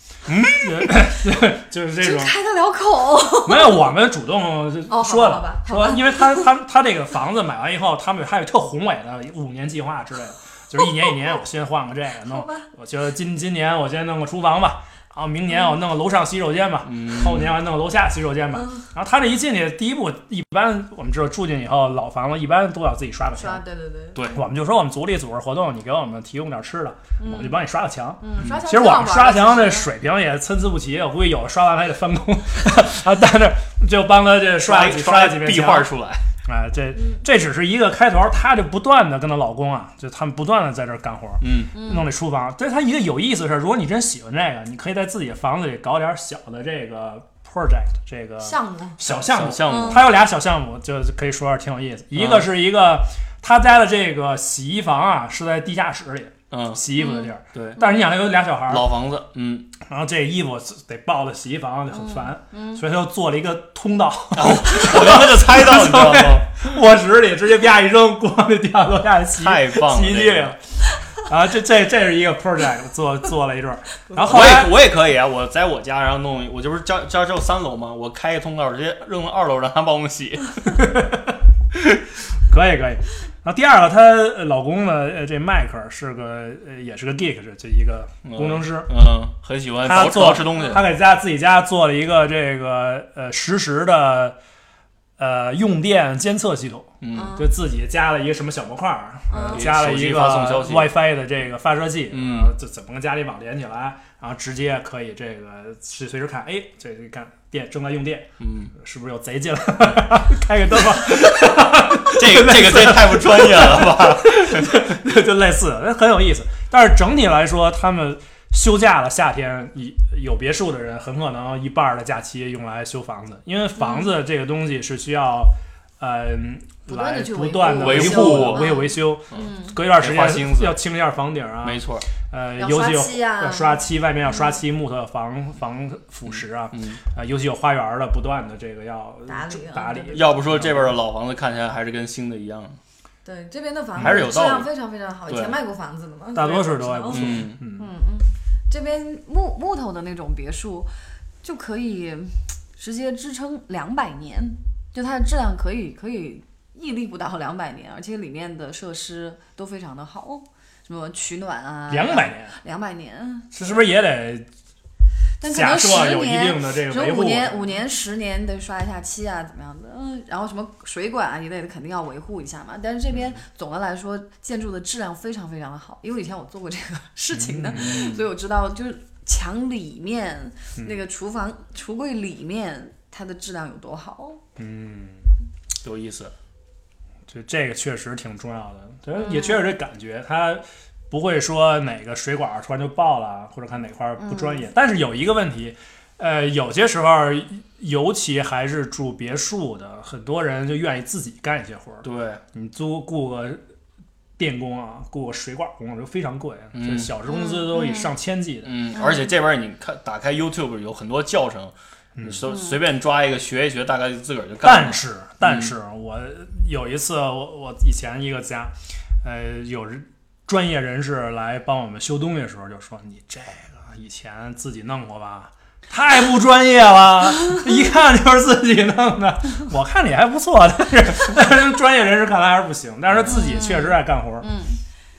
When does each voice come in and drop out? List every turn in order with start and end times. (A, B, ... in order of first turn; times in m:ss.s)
0:00.3-0:00.9 A
0:00.6-0:02.3 B
0:02.0-0:03.9 C
0:03.5-0:23.6 B
0:04.9-0:06.5 C
0:12.2-0:12.7 C
0:16.8-0:17.6 A
0:23.4-0:24.2 C
0:24.1-0:24.4 A
0:24.3-0:35.9 B
0:27.2-0:27.6 C
0:28.2-0:29.9 C
0:34.6-0:36.3 A
0:36.4-0:58.9 B
0:37.0-0:37.2 C
0:41.4-0:41.7 A
0:41.7-0:42.1 C
0:48.4-0:49.0 C
0:49.0-0:50.1 A
0:49.6-0:50.0 C
0:52.1-0:52.5 A
0:56.5-0:56.8 A
0:57.0-0:58.0 C
0:57.5-0:57.8 A
0:58.7-0:59.7 A
0:59.8-1:10.6 B
1:01.9-1:02.8 C
1:04.3-1:06.6 A
1:09.4-1:10.5 A
1:11.1-1:14.8 B
1:14.2-1:20.6 A
1:20.7-1:21.4 B
1:22.5-1:28.9 B
1:28.2-1:30.9 A
1:29.8-1:34.4 B
1:30.5-1:30.8 C
1:35.2-2:21.0 B
1:37.0-1:37.3 A
1:37.1-1:37.5 C
1:39.3-1:39.6 C
1:39.5-1:40.9 A
1:42.1-1:42.5 A
1:48.4-1:48.7 A
1:52.1-1:54.8 A
2:03.8-2:04.1 C
2:06.9-2:09.8 C
2:07.8-2:08.7 A
2:09.3-2:10.8 A
2:11.6-2:12.1 A
2:12.6-2:14.6 C
2:16.3-2:17.0 A
2:19.2-2:20.4 C
2:20.1-2:22.8 A
2:23.2-2:30.9 C
2:24.0-2:24.2 B
2:24.0-2:24.7 A
2:25.3-2:25.6 A
2:26.4-2:27.9 B
2:27.1-2:27.6 A
2:31.4-2:43.8 C
2:41.9-2:42.6 B
2:43.5-2:44.5 B
2:45.4-3:04.4 C
2:45.5-2:47.8 B
2:57.3-2:58.3 B
3:04.6-3:05.3 B
3:05.8-3:06.3 A
3:07.3-3:23.6 B
3:09.1-3:09.8 C
3:14.2-3:14.6 C
3:22.0-3:22.4 A
3:24.4-3:28.8 B
3:26.7-3:27.1 A
3:27.3-3:28.1 C
3:28.6-3:35.7 A
3:29.0-3:29.3 C
3:32.2-3:32.5 B
3:32.5-3:32.8 C
3:34.6-3:54.5 B
3:53.1-3:53.4 A
3:53.2-3:54.8 C